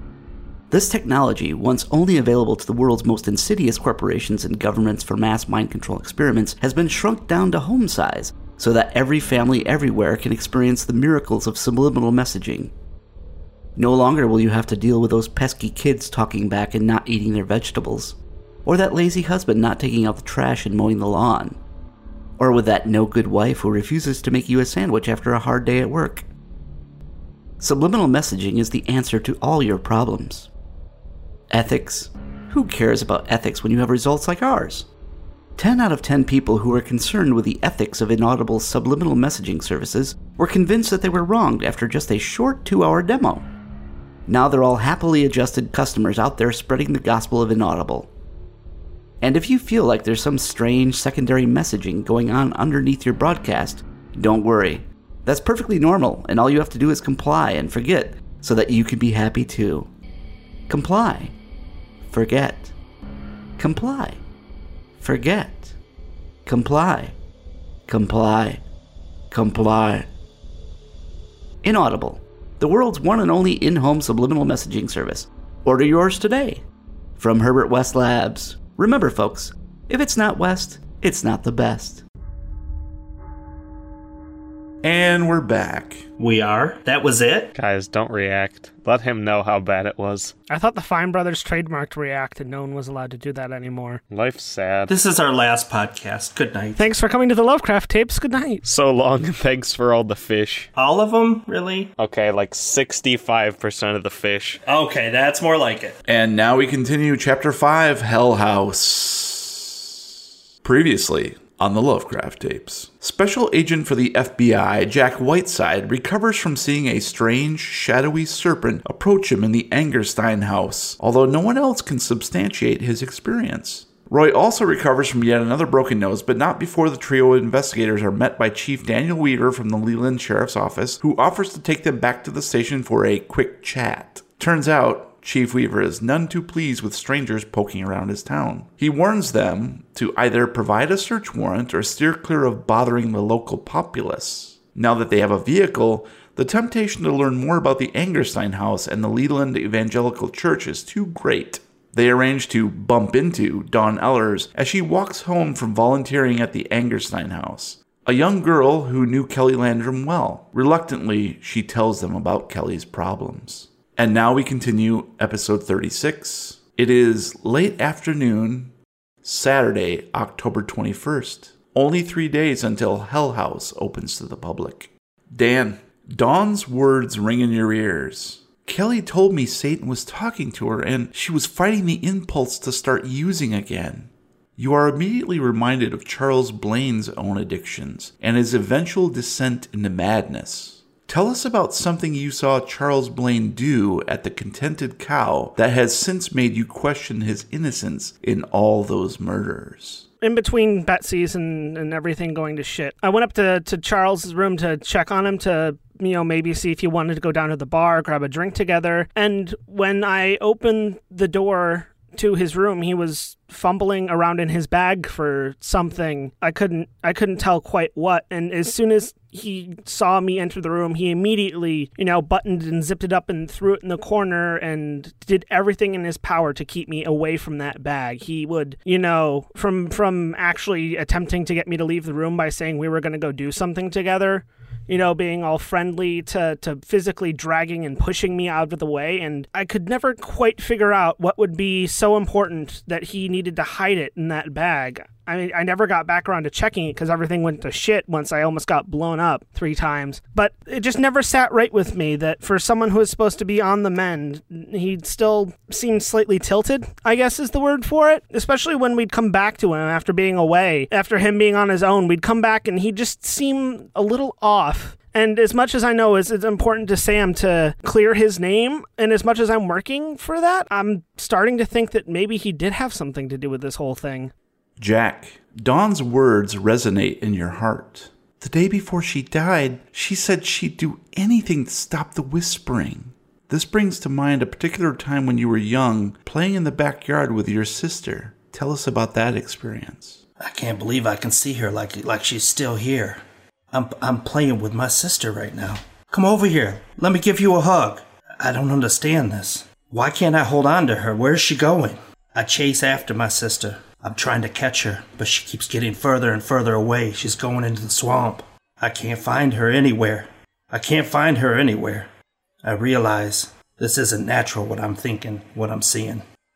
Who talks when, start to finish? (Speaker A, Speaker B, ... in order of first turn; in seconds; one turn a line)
Speaker A: 0.7-12.7
Speaker A: 13.8-21.6
Speaker A: 22.4-26.2
Speaker A: 27.6-30.5
Speaker A: 31.5-34.9
Speaker A: 35.6-43.5
Speaker A: 44.3-48.1
Speaker A: 49.2-59.9
Speaker A: 60.7-61.3
Speaker A: 62.0-62.8
Speaker A: 63.6-64.2
Speaker A: 65.0-65.8
Speaker A: 66.5-67.2
Speaker A: 67.9-68.6
Speaker A: 69.3-70.1
Speaker A: 71.6-76.6
Speaker A: 77.2-82.0
Speaker B: 84.8-86.1
Speaker C: 86.2-87.5
Speaker D: 87.5-90.3
Speaker E: 90.5-94.0
Speaker D: 94.1-94.9
Speaker C: 94.9-96.8
Speaker E: 96.8-98.6
Speaker D: 98.6-100.7
Speaker C: 100.8-101.9
Speaker D: 102.0-104.6
Speaker C: 104.7-106.0
Speaker B: 106.0-109.9
Speaker B: 110.6-200.1
Speaker E: 200.2-274.3
Speaker B: 274.8-290.2
Speaker C: 290.4-312.1
Speaker C: 312.6-316.2